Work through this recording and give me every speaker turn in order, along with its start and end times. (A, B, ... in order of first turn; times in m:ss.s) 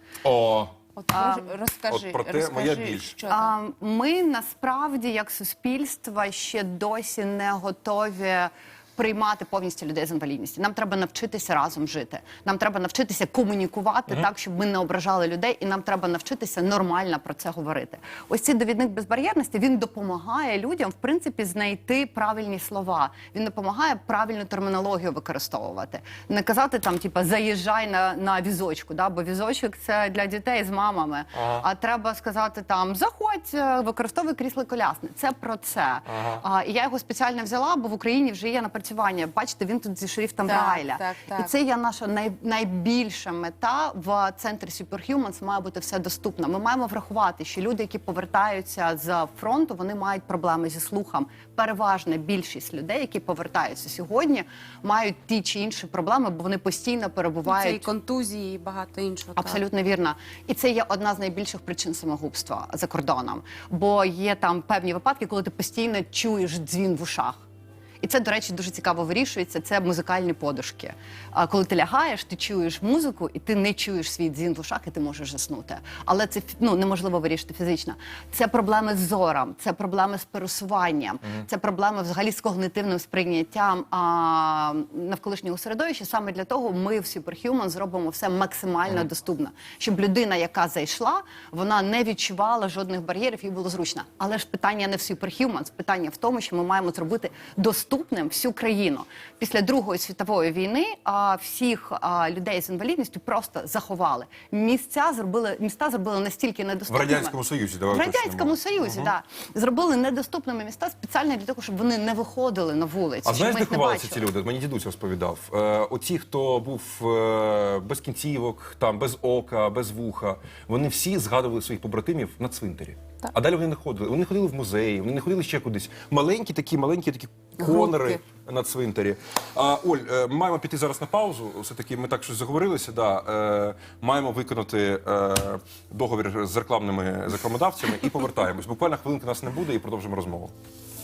0:00.2-0:00.7 A
0:01.0-0:03.5 B
0:01.1-0:01.5 C
0:01.9-0:03.1 A
0:03.3-0:57.9 C
0:31.3-0:31.6 A
0:36.1-0:36.4 A
0:40.4-0:41.5 B
0:57.4-0:59.6 B
0:59.4-1:07.4 C
1:08.0-1:47.4 C
1:46.9-1:49.1 A
1:47.9-1:54.3 C
1:53.2-2:20.5 A
2:07.6-2:08.2 B